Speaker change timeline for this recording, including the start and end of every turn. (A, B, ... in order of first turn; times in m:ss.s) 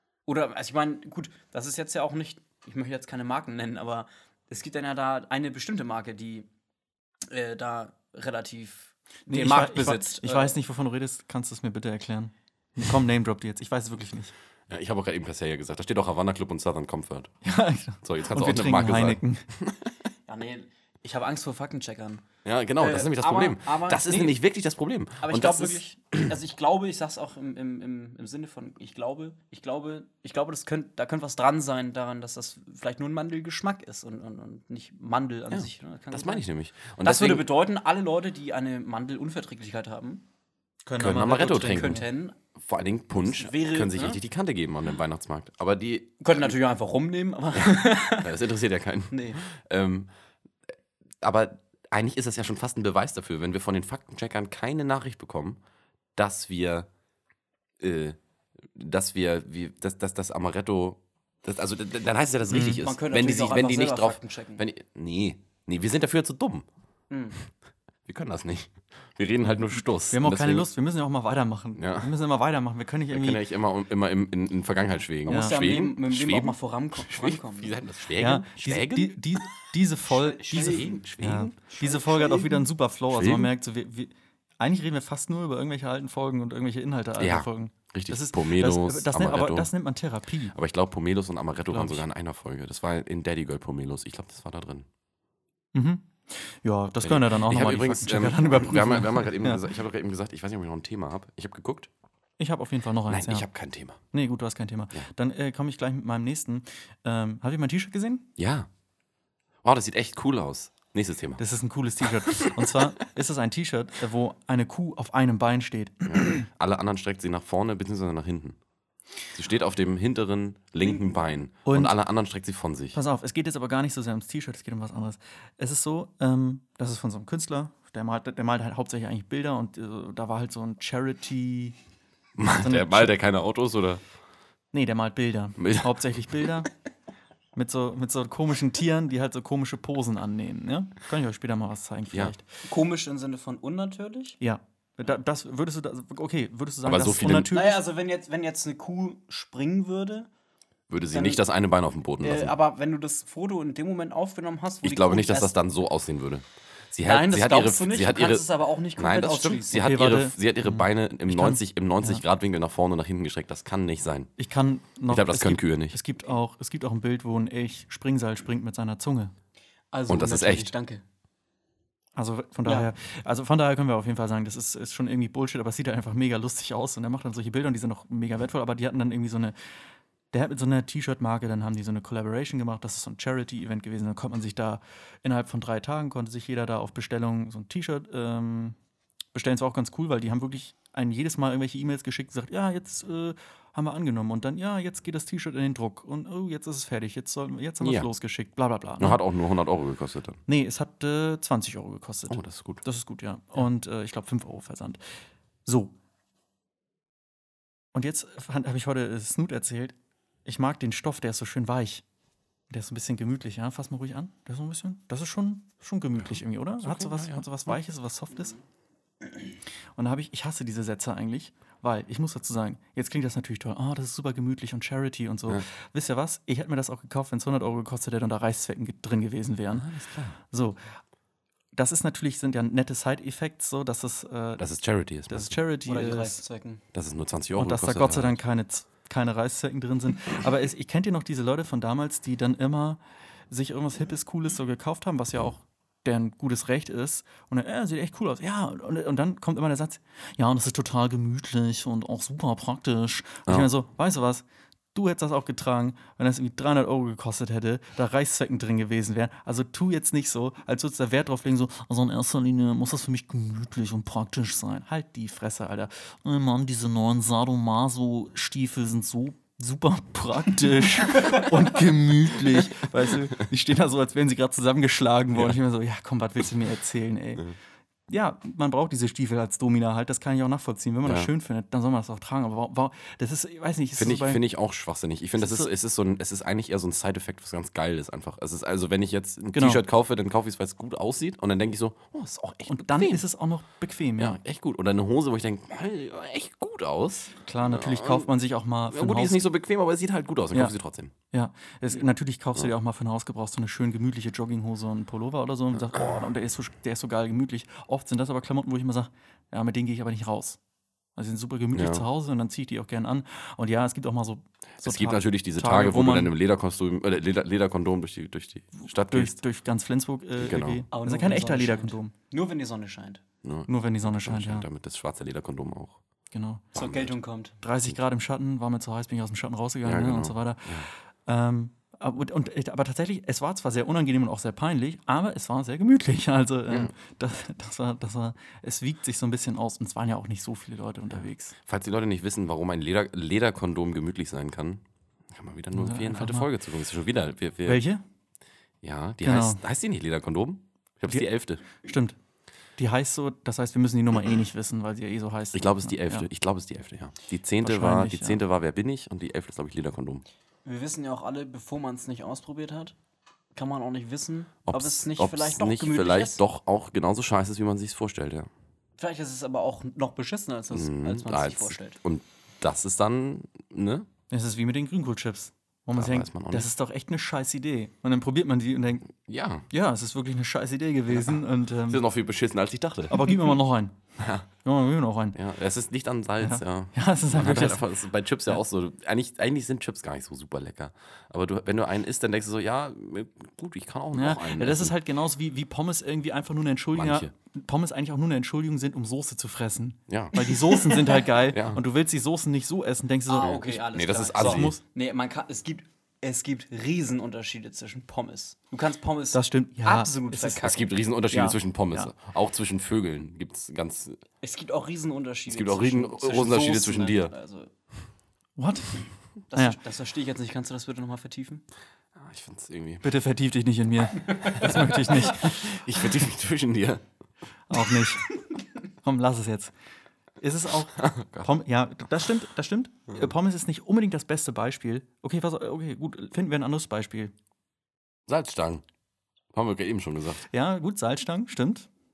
0:00.2-0:06.5 A
0:07.3-0:10.6 A
0:09.3-0:14.3 B
0:14.7-0:17.3 C
0:17.4-0:19.4 B
0:18.0-0:19.9 C
0:20.3-0:22.2 A
0:22.4-0:26.3 C
0:22.8-0:24.4 A
0:25.2-0:36.5 A
0:35.5-0:37.5 C
0:37.0-0:40.2 A
0:40.8-0:42.0 B
0:41.0-0:42.0 C
0:41.0-0:42.4 A
0:42.6-0:46.5 C
0:43.2-0:44.2 A
0:46.2-0:48.4 A
0:47.6-0:50.1 C
0:49.1-0:49.4 A
0:51.2-0:55.6 C
0:56.2-0:56.9 C
0:57.8-0:58.2 C
0:58.7-1:06.6 C
1:02.5-1:02.8 B
1:02.6-1:04.6 A
1:07.1-1:07.4 A
1:08.0-1:10.7 C
1:10.1-1:13.4 B
1:11.8-1:12.1 C
1:13.1-1:19.1 C
1:15.2-1:17.8 A
1:15.3-1:15.6 B
1:18.2-1:30.5 B
1:20.0-1:21.0 A
1:20.4-1:21.6 C
1:21.7-1:22.6 A
1:23.1-1:23.5 C
1:27.2-1:29.7 C
1:30.5-1:34.9 C
1:31.7-1:32.0 B
1:35.7-1:39.7 B
1:37.0-1:41.9 C
1:42.4-1:43.5 B
1:43.1-1:44.0 C
1:44.1-1:48.3 B
1:48.4-1:48.7 C
1:49.6-1:51.4 C
1:51.4-1:56.4 B
1:52.4-1:52.8 C
1:56.0-1:58.6 C
1:59.3-2:03.0 C
2:00.8-2:01.2 A
2:01.6-2:02.0 B
2:02.9-2:11.8 B
2:12.4-2:14.0 C
2:12.5-2:13.1 B
2:14.7-2:16.7 B
2:15.6-2:15.9 C
2:17.5-2:22.4 B
2:22.6-2:24.4 A
2:24.4-2:27.8 B
2:26.8-2:27.5 C
2:27.5-2:30.3 A
2:30.9-2:32.6 C
2:31.1-2:31.4 A
2:32.2-2:35.6 A
2:34.8-2:38.4 C
2:37.0-2:39.9 A
2:39.0-2:44.3 C
2:39.8-2:42.2 B
2:44.4-2:49.3 B
2:45.1-2:46.0 C
2:49.9-2:51.0 A
2:50.1-2:50.7 C
2:52.2-2:59.5 B
2:52.6-2:52.9 A
3:00.3-3:08.8 B
3:09.3-3:19.2 B
3:17.8-3:18.1 C
3:19.0-3:20.4 C
3:20.5-3:25.0 B
3:22.3-3:22.8 C
3:25.6-3:25.9 B
3:27.9-3:29.9 B
3:30.4-3:32.0 B
3:32.7-3:38.6 B
3:36.8-3:37.7 C
3:40.0-3:49.9 B
3:49.7-3:50.4 C
3:50.4-3:50.8 B
3:51.7-3:54.7 B
3:54.6-3:55.6 C
3:55.3-3:56.4 B
3:55.8-3:56.8 A
3:56.9-3:58.4 C
3:57.6-4:37.5 B
4:38.1-4:44.4 B
4:44.0-4:53.2 C
4:45.4-4:45.7 B
4:49.5-4:49.8 B
4:52.7-4:54.4 B
4:54.2-4:58.3 C
4:57.4-4:59.4 B
4:58.9-5:01.1 C
5:01.3-5:10.6 B
5:11.2-5:16.3 B
5:11.7-5:12.0 C
5:14.8-5:19.4 C
5:18.8-5:22.1 B
5:20.4-5:20.8 C
5:20.9-5:23.2 A
5:23.4-5:26.0 C
5:23.7-5:24.6 B
5:26.3-5:26.6 B
5:26.7-5:27.1 C
5:26.7-5:27.5 A
5:27.6-5:41.5 B
5:29.8-5:30.9 C
5:41.1-5:47.8 C
5:45.7-5:46.5 B
5:47.6-5:48.0 B
5:48.8-5:51.6 C
5:49.2-5:49.6 B
5:51.8-5:52.2 B
5:52.8-5:56.3 B
5:55.5-6:00.2 C
5:57.6-5:58.4 B
6:00.6-6:03.0 A
6:03.5-6:06.4 A
6:04.7-6:08.5 C
6:09.0-6:12.0 A
6:10.7-6:14.1 C
6:14.3-6:19.1 B
6:16.0-6:16.7 C
6:19.2-6:19.7 C
6:19.7-6:22.0 B
6:21.1-6:23.3 C
6:23.1-6:23.9 B
6:24.2-6:24.4 C
6:24.6-6:25.4 B
6:25.3-6:34.9 C
6:26.4-6:27.9 B
6:34.1-6:43.7 B
6:36.9-6:37.3 C
6:40.1-6:40.4 C
6:41.4-6:41.8 C
6:43.3-6:50.9 A
6:43.4-6:44.8 C
6:44.3-6:44.8 B
6:49.3-6:50.6 B
6:50.4-6:54.2 C
6:51.3-6:52.1 B
6:54.4-6:57.7 A
6:55.5-6:57.3 C
6:58.6-6:59.8 B
6:59.5-7:01.6 A
7:02.2-7:03.0 C
7:03.0-7:05.8 B
7:04.7-7:07.0 C
7:07.7-7:08.3 B
7:09.0-7:09.7 B
7:10.4-7:17.3 B
7:11.0-7:11.5 C
7:18.3-7:18.8 C
7:19.5-7:20.4 C
7:20.5-7:21.9 B